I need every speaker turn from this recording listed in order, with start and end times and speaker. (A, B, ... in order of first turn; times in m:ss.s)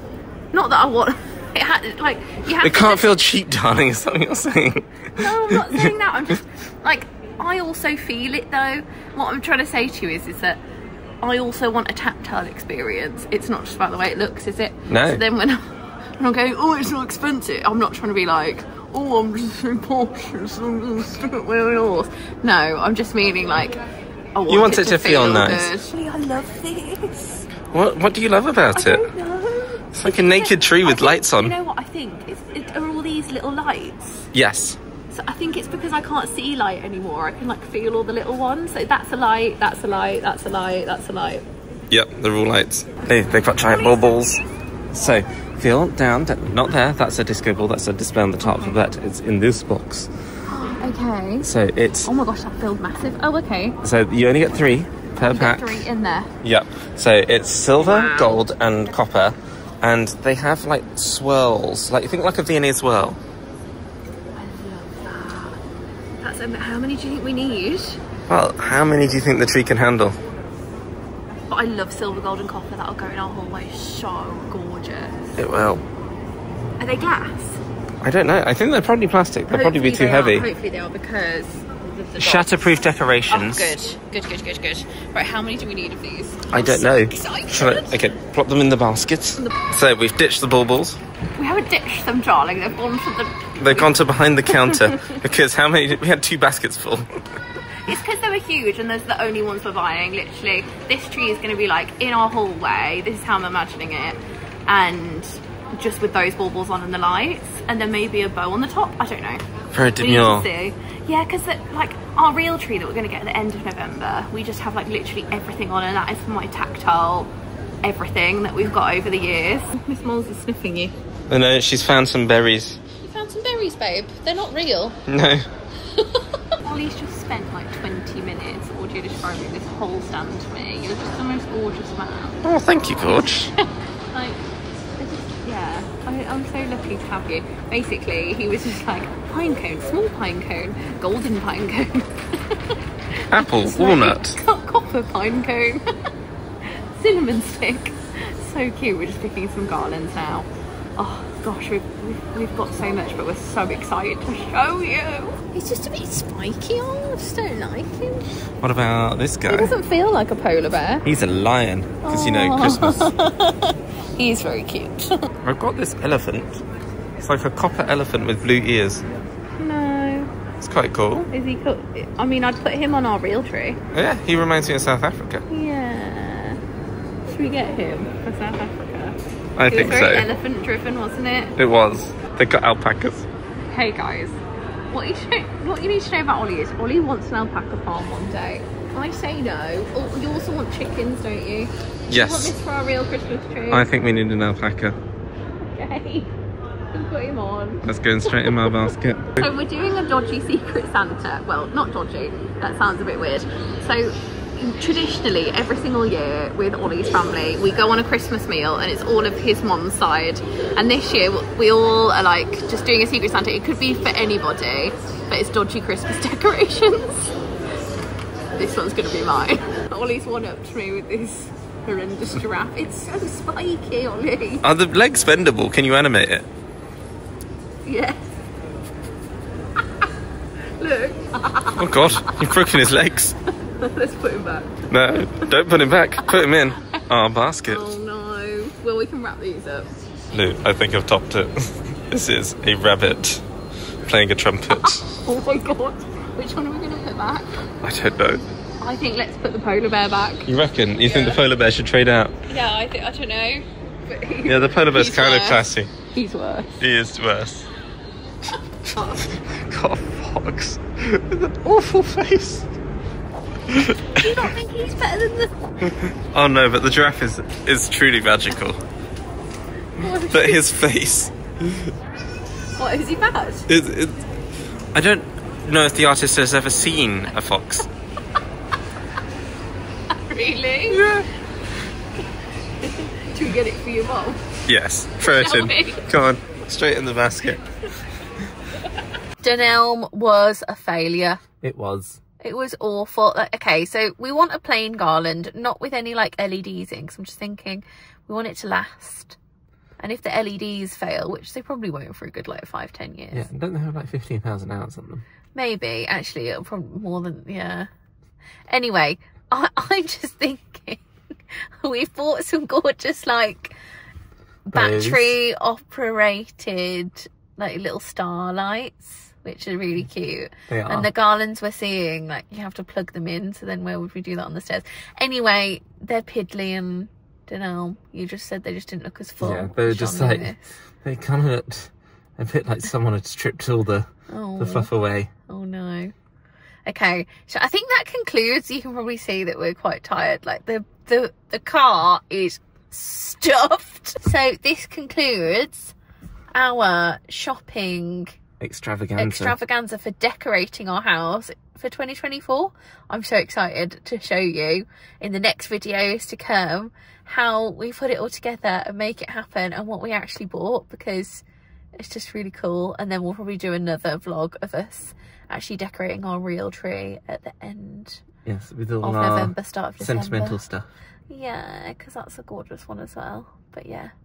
0:00.5-0:03.2 A
0:02.6-0:05.9 B
0:05.2-0:10.6 A
0:11.2-0:15.6 A
0:14.9-0:15.2 B
0:16.2-0:23.8 A
0:24.4-0:27.5 A
0:24.5-0:25.8 B
0:27.7-0:29.0 B
0:28.7-0:34.3 A
0:29.9-0:31.6 B
0:34.3-0:34.8 B
0:35.1-0:41.4 A
0:41.9-0:44.4 B
0:43.6-0:44.2 A
0:44.9-0:50.1 B
0:48.4-0:48.8 A
0:50.5-0:51.5 A
0:51.4-0:52.1 B
0:52.0-0:53.8 A
0:53.8-0:55.8 B
0:55.2-0:56.3 A
0:56.4-1:03.2 B
0:57.8-0:58.4 A
1:04.4-1:05.6 A
1:06.2-1:08.0 A
1:08.3-1:10.2 B
1:11.5-1:15.5 A
1:15.4-1:15.8 B
1:16.8-1:17.6 A
1:18.0-1:20.5 B
1:19.5-1:28.0 A
1:22.2-1:23.8 B
1:26.5-1:31.0 B
1:29.4-1:29.6 A
1:31.4-1:35.2 A
1:33.6-1:37.0 B
1:37.8-1:49.4 A
1:49.7-1:50.5 B
1:50.0-1:57.3 A
1:57.8-2:01.0 A
2:01.3-2:02.8 B
2:03.0-2:05.0 A
2:05.1-2:05.5 B
2:05.8-2:12.4 A
2:12.4-2:13.5 B
2:13.0-2:13.6 A
2:14.1-2:14.4 A
2:15.0-2:25.8 A
2:23.3-2:24.4 B
2:27.0-2:38.3 A
2:38.6-2:39.7 B
2:39.5-2:41.0 A
2:41.0-2:43.1 B
2:42.0-2:45.3 A
2:45.4-2:46.6 B
2:47.2-2:49.0 B
2:49.6-2:50.3 A
2:50.6-2:51.3 B
2:51.3-2:53.8 A
2:53.9-2:55.4 B
2:55.5-2:56.6 A
2:57.3-2:59.2 A
2:59.6-3:00.3 B
2:59.7-3:01.5 A
3:01.6-3:03.3 B
3:03.7-3:04.4 A
3:04.9-3:13.9 A
3:12.1-3:12.6 B
3:13.7-3:15.0 B
3:15.7-3:16.3 A
3:16.9-3:37.4 A
3:17.9-3:19.5 B
3:38.6-3:44.6 A
3:44.6-3:46.5 B
3:47.8-3:48.4 A
3:50.8-3:52.8 A
3:51.8-3:53.4 B
3:53.7-3:54.9 A
3:54.9-3:57.9 B
3:56.2-3:57.0 A
3:57.6-3:59.9 A
4:00.3-4:03.4 B
4:04.1-4:05.1 B
4:04.7-4:07.5 A
4:07.8-4:08.4 B
4:08.8-4:10.5 A
4:10.5-4:12.4 B
4:11.0-4:11.4 A
4:12.5-4:16.8 A
4:14.4-4:16.0 B
4:16.8-4:17.7 B
4:19.0-4:19.3 A
4:19.3-4:22.7 B
4:23.7-4:24.2 B
4:24.2-4:25.5 A
4:25.8-4:28.8 B
4:30.0-4:30.7 A
4:30.2-4:31.9 B
4:32.8-4:33.7 A
4:33.7-4:34.2 B
4:34.9-4:37.8 B
4:40.1-4:41.1 A
4:40.9-4:41.3 B
4:42.8-4:44.4 A
4:44.7-4:47.6 B
4:45.2-4:46.1 A
4:49.4-4:51.5 A
4:51.5-4:52.2 B
4:52.4-4:59.4 A
5:00.0-5:03.5 A
5:03.3-5:05.2 B
5:05.6-5:07.9 A
5:08.7-5:11.0 A
5:11.8-5:13.7 A
5:14.7-5:30.6 A
5:14.7-5:15.4 B
5:20.7-5:21.1 B
5:29.4-5:35.3 B
5:34.3-5:36.1 A
5:36.9-5:46.0 A
5:46.5-5:48.4 A
5:48.6-5:49.6 B
5:49.2-6:01.4 A
6:02.0-6:08.2 A
6:08.4-6:10.9 B
6:09.0-6:10.6 A
6:11.3-6:14.1 A